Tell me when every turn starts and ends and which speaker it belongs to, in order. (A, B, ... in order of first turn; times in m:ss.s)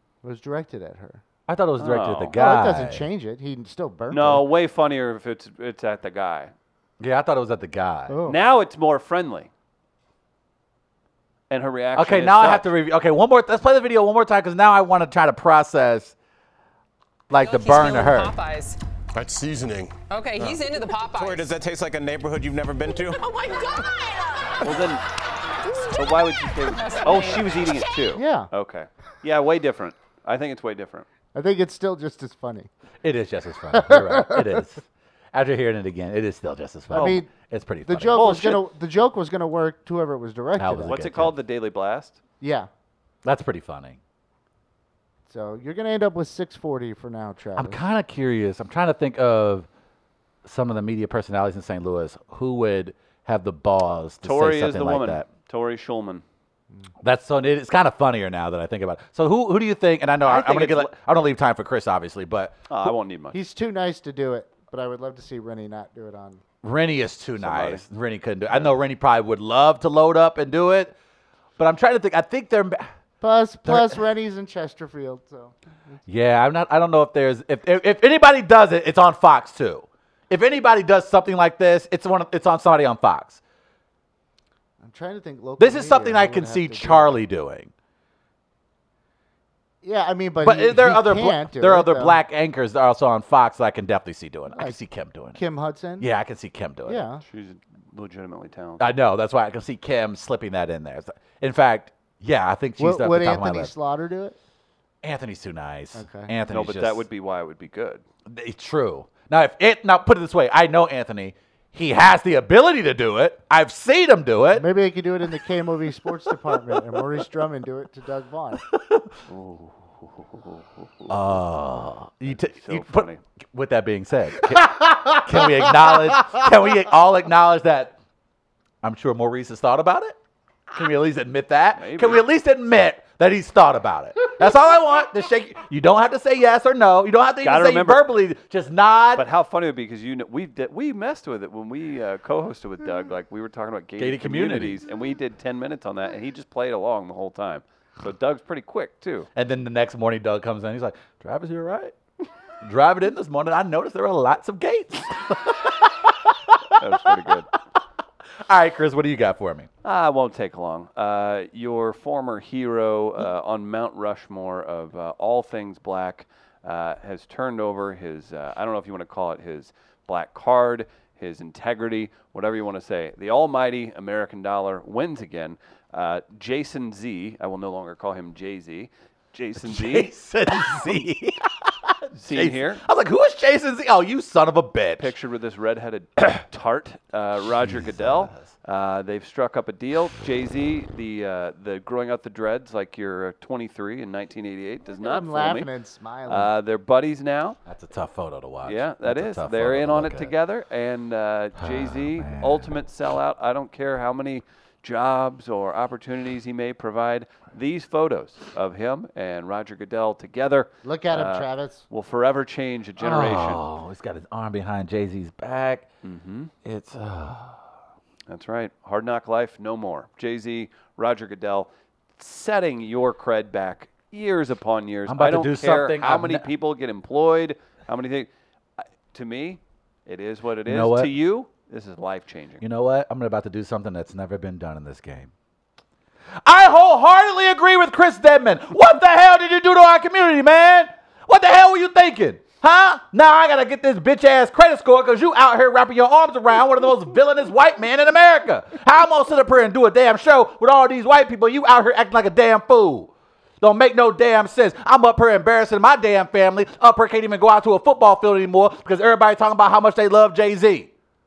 0:00.2-0:01.2 A
0:01.5-0:03.0 B
0:01.8-0:02.4 C
0:02.4-0:04.4 A
0:04.1-0:06.5 C
0:07.0-0:08.1 B
0:08.1-0:08.4 A
0:08.2-0:09.5 C
0:11.5-0:12.7 C
0:12.0-0:16.1 B
0:17.3-0:18.3 B
0:17.3-0:18.8 D
0:19.1-0:20.6 E
0:20.1-0:21.5 D
0:21.1-0:23.2 E
0:24.6-0:25.0 C
0:26.0-0:31.1 C
0:26.8-0:27.4 D
0:28.1-0:28.5 A
0:31.3-0:32.7 A
0:33.0-0:38.3 B
0:33.7-0:34.6 A
0:36.9-0:37.3 A
0:36.9-0:37.2 C
0:37.8-0:41.0 A
0:38.1-0:38.6 C
0:40.6-0:41.4 B
0:40.9-0:42.2 C
0:42.4-0:42.7 A
0:43.2-0:44.0 B
0:45.3-0:47.8 A
0:47.5-0:49.7 B
0:50.4-0:55.2 B
0:54.2-0:56.2 C
0:57.0-1:02.7 B
1:00.2-1:00.9 C
1:02.7-1:03.4 C
1:03.3-1:06.4 A
1:06.6-1:10.9 B
1:07.4-1:07.8 C
1:11.6-1:12.9 B
1:13.2-1:15.5 A
1:13.6-1:14.0 B
1:16.1-1:23.4 B
1:24.8-1:27.2 A
1:25.6-1:27.7 B
1:29.8-1:32.2 A
1:30.4-1:35.4 B
1:34.5-1:34.8 A
1:35.3-1:36.1 A
1:36.0-1:37.0 B
1:36.8-1:37.2 A
1:37.2-1:38.9 C
1:38.8-1:43.7 B
1:42.8-1:44.4 A
1:45.0-1:47.0 B
1:45.9-1:46.3 A
1:46.5-1:48.0 C
1:48.2-1:54.7 B
1:54.5-1:58.6 A
1:58.7-1:59.1 B
1:59.3-2:01.4 C
2:01.1-2:07.9 B
2:02.3-2:03.2 C
2:05.4-2:05.7 A
2:08.8-2:10.2 B
2:10.7-2:19.2 B
2:11.8-2:12.2 C
2:17.4-2:18.0 C
2:19.2-2:29.3 C
2:24.0-2:24.8 B
2:29.3-2:31.9 B
2:32.6-2:36.8 B
2:36.8-2:37.5 C
2:38.4-2:39.7 B
2:39.8-3:00.1 C
2:59.6-3:05.1 B
3:02.1-3:02.8 C
3:05.0-3:15.7 C
3:07.6-3:08.5 B
3:14.9-3:16.5 A
3:16.3-3:17.6 C
3:17.6-3:20.3 B
3:18.6-3:33.6 C
3:21.6-3:22.8 B
3:30.8-3:31.8 A
3:33.0-3:35.8 B
3:36.0-3:36.5 C
3:36.6-3:37.7 B
3:38.3-3:52.6 C
3:45.1-3:46.5 B
3:50.6-3:51.1 B
3:52.6-3:55.3 B
3:56.4-4:20.9 B